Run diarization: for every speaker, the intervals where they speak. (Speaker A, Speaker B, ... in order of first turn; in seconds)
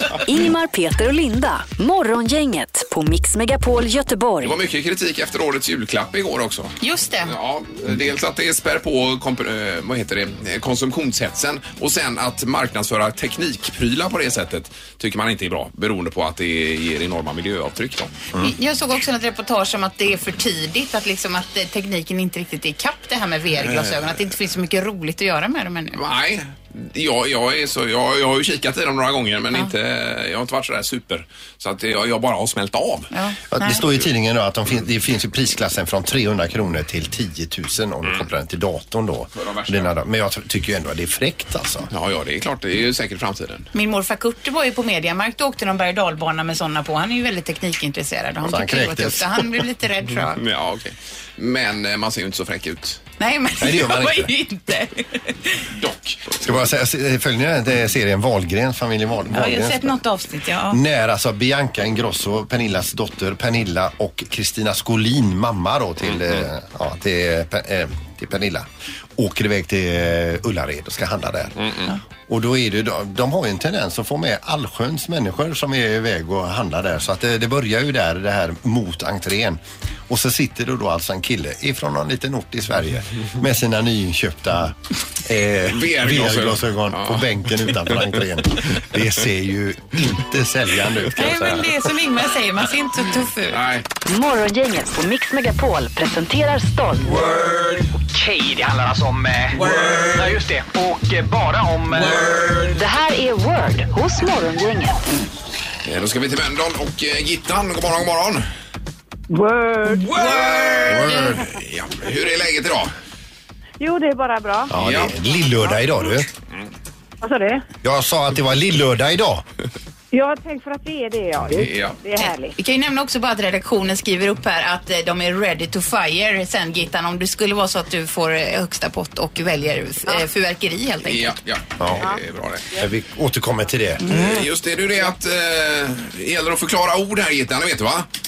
Speaker A: 0.2-4.5, 94.0-97.1, 102.7-105.2
Speaker B: 4.4-6.7, 7.3-18.1, 25.9-33.1, 39.4-39.9, 41.9-43.7, 50.4-53.0, 55.8-56.4, 71.6-71.9, 85.7-88.0, 93.5-93.9, 105.8-108.5, 110.3-112.9, 114.7-115.2, 121.5-122.0, 131.1-132.7, 134.1-138.1
Speaker C: 6.8-7.3, 18.4-26.0, 33.1-33.9, 43.7-50.4, 53.2-55.5, 59.3-60.8, 91.2-93.6, 122.2-131.4
Speaker D: 33.5-41.9, 48.4-49.4, 53.6-54.3, 56.4-60.0, 60.7-71.7, 72.3-91.8, 110.8-111.5, 114.7-116.3, 117.8-119.4, 131.8-132.1, 132.8-134.2
Speaker E: 97.0-102.7, 109.9-111.1, 134.1-134.5
Speaker F: 109.3-110.2, 113.8-114.7, 117.2-117.7, 120.1-122.5